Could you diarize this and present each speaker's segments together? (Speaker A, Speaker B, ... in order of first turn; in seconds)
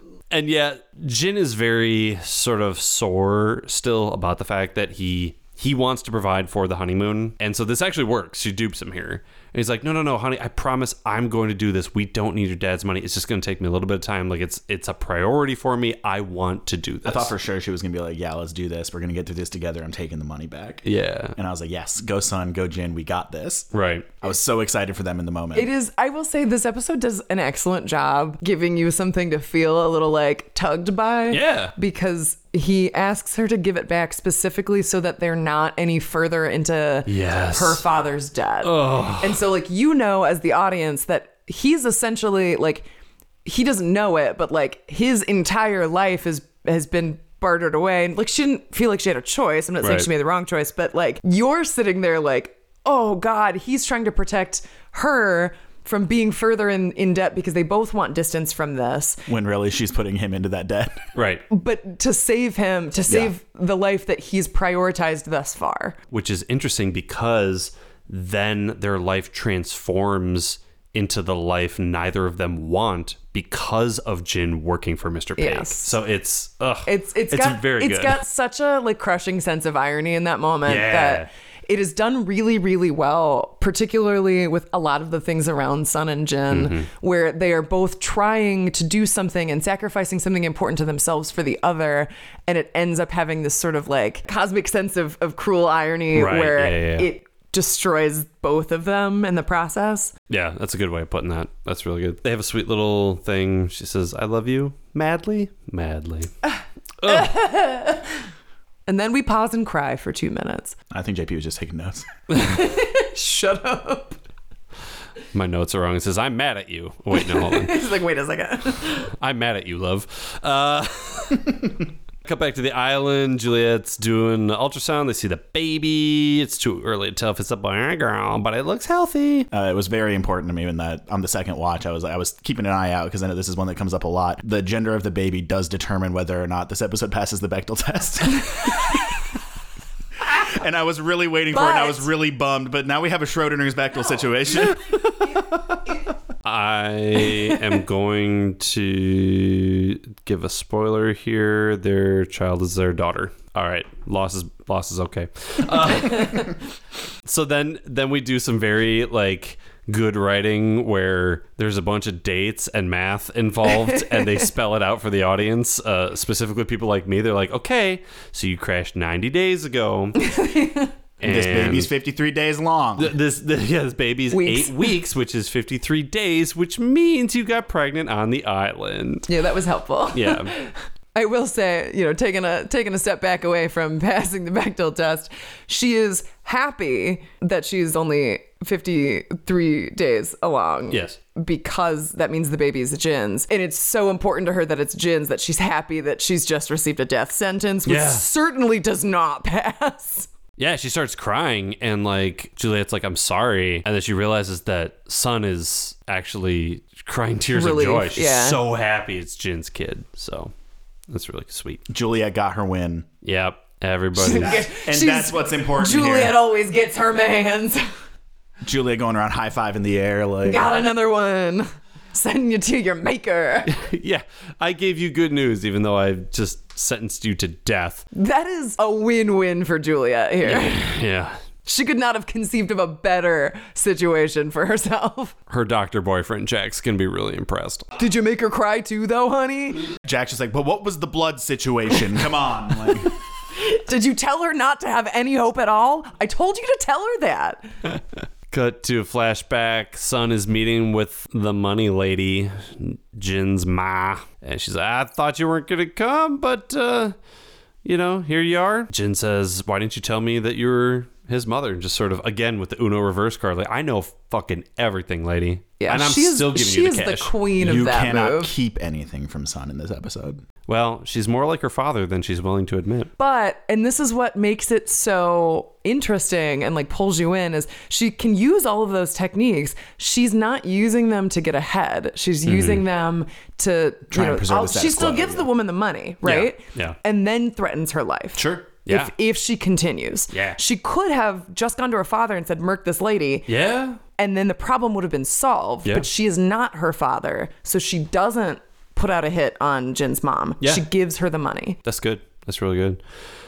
Speaker A: 0.3-17.3, 20.8-21.4, 23.7-24.1, 31.3-31.7, 37.0-37.8, 38.6-39.4, 49.8-50.1, 61.1-61.4, 66.1-78.2, 80.6-81.3, 86.5-86.9, 96.1-97.1, 100.3-106.3, 107.0-107.3, 115.3-117.8, 119.2-121.5, 122.2-129.5, 144.8-145.8, 146.4-156.6, 157.2-170.2, 171.2-171.9, 173.0-179.3, 180.1-180.5, 190.9-191.2, 197.8-198.2, 200.6-210.5, 211.1-211.8, 213.2-214.6, 223.7-228.0, 230.4-231.4, 235.5-237.9, 248.5-257.1, 257.8-267.3, 270.7-273.1, 282.4-282.8, 286.2-287.0, 288.3-289.1, 290.3-290.6, 293.5-294.0, 301.8-303.0
Speaker B: 17.0-20.8, 21.4-23.7, 24.2-25.7, 59.3-61.0, 110.9-112.1, 129.5-139.0, 140.3-144.8, 171.2-173.1, 211.9-213.1, 214.3-216.4, 218.6-220.7, 240.0-243.1, 267.6-270.4, 284.1-285.5
Speaker C: 25.5-42.9, 43.4-59.2, 61.5-66.0, 75.4-75.9, 76.8-100.1, 106.5-108.2, 108.9-110.8, 112.3-114.2, 117.1-119.1, 141.5-142.1, 163.8-164.4, 170.2-170.9, 174.3-174.9, 179.3-200.3, 207.5-208.6, 214.2-217.8, 220.4-223.8, 228.1-230.9, 231.7-235.3, 238.0-239.9, 243.5-247.7, 265.8-268.5, 273.2-293.5, 294.2-301.8